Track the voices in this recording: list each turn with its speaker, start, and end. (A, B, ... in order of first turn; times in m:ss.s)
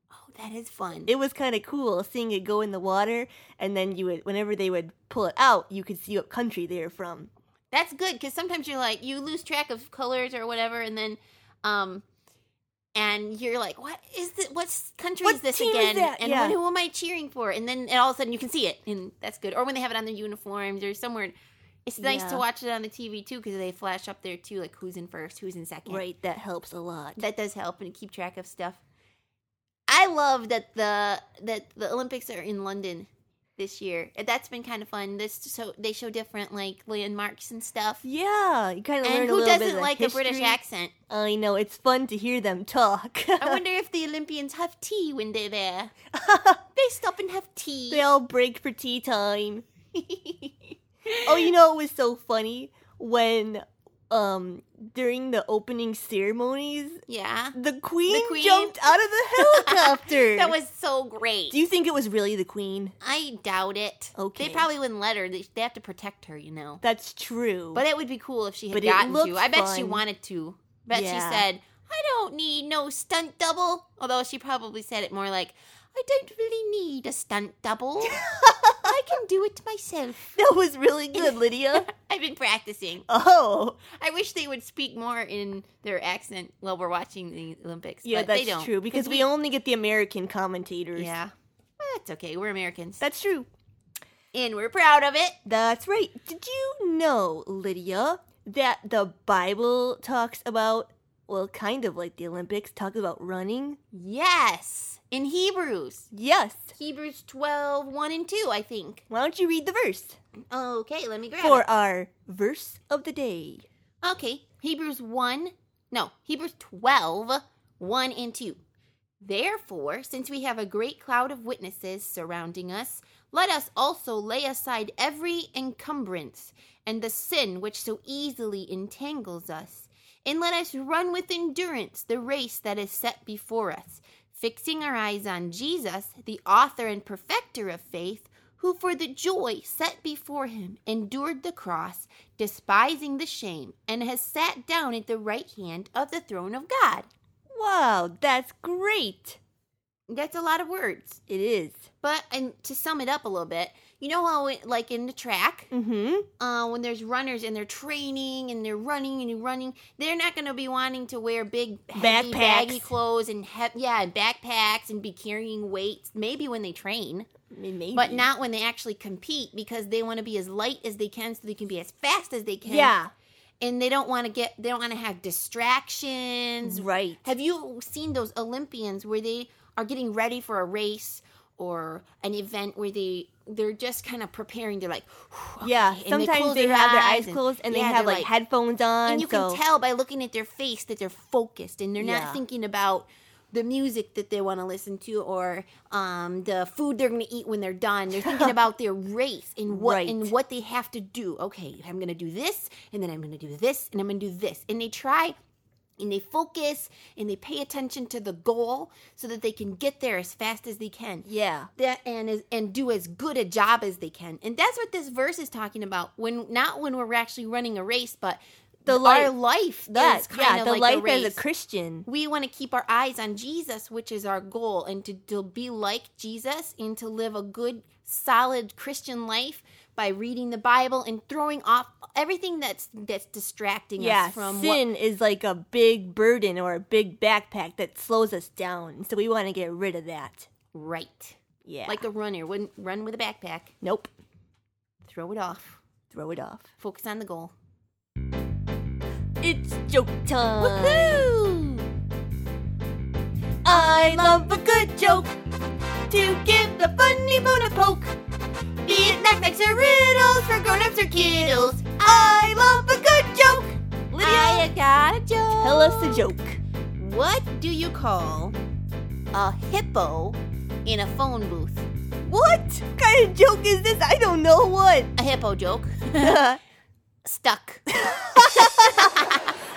0:00.1-0:01.1 A
0:01.1-0:07.3 B
0:07.7-0:12.0 A
0:13.0-0:21.3 A
0:15.2-0:16.6 B
0:21.9-0:26.0 A
0:22.0-0:22.4 B
0:25.9-0:27.2 B
0:27.2-0:28.8 A
0:29.9-0:38.0 A
0:38.0-0:40.6 B
0:39.0-0:40.9 A
0:41.1-0:43.6 B
0:43.4-0:45.9 A
0:46.1-0:46.6 B
0:46.8-0:48.0 A
0:47.9-0:49.6 B
0:50.0-0:50.5 A
0:51.1-0:51.5 A
0:51.3-0:57.0 B
0:57.1-1:01.6 A
0:57.6-1:00.6 B
1:01.5-1:02.9 B
1:03.0-1:06.8 A
1:04.2-1:04.7 B
1:06.8-1:07.8 B
1:07.8-1:18.2 A
1:08.7-1:10.0 B
1:10.9-1:11.4 B
1:18.1-1:18.9 B
1:18.8-1:20.4 A
1:20.4-1:21.9 B
1:21.2-1:23.1 A
1:23.1-1:23.8 B
1:23.9-1:29.3 A
1:28.0-1:31.1 B
1:31.0-1:33.0 A
1:33.0-1:33.5 B
1:34.3-1:35.4 A
1:35.5-1:43.8 B
1:43.9-1:46.1 A
1:46.1-1:46.7 B
1:46.8-1:49.0 A
1:49.1-1:50.2 B
1:50.5-1:51.6 A
1:51.4-1:53.7 B
1:54.0-1:58.6 A
1:59.2-2:27.1 A
2:27.5-2:29.4 B
2:30.1-2:31.2 A
2:31.3-2:31.9 B
2:32.0-2:35.7 A
2:35.7-2:36.3 B
2:36.4-2:47.3 A
2:41.9-2:42.9 B
2:47.5-2:48.3 B
2:47.9-2:53.0 A
2:52.6-2:53.1 B
2:53.6-3:08.3 A
2:56.6-2:57.2 B
3:05.6-3:09.6 B
3:09.0-3:25.4 A
3:12.0-3:12.4 B
3:18.2-3:18.6 B
3:19.7-3:20.3 B
3:26.0-3:41.4 A
3:31.2-3:31.7 B
3:38.9-3:39.3 B
3:39.9-3:42.1 B
3:42.0-3:54.8 A
3:54.0-4:00.5 B
4:00.7-4:03.7 A
4:01.7-4:02.0 B
4:03.8-4:04.1 B
4:05.0-4:05.8 A
4:06.1-4:06.7 B
4:06.8-4:07.5 A
4:09.4-4:11.3 B
4:10.6-4:11.9 A
4:13.6-4:15.3 B
4:13.7-4:15.1 A
4:16.1-4:18.1 A
4:18.8-4:22.7 A
4:21.8-4:24.7 B
4:24.2-4:26.2 A
4:25.6-4:26.6 B
4:27.0-4:28.6 A
4:29.3-4:31.9 A
4:32.3-4:35.1 B
4:35.2-4:36.4 A
4:36.2-4:36.6 B
4:37.2-4:37.8 A
4:37.9-4:39.3 B
4:38.4-4:39.6 A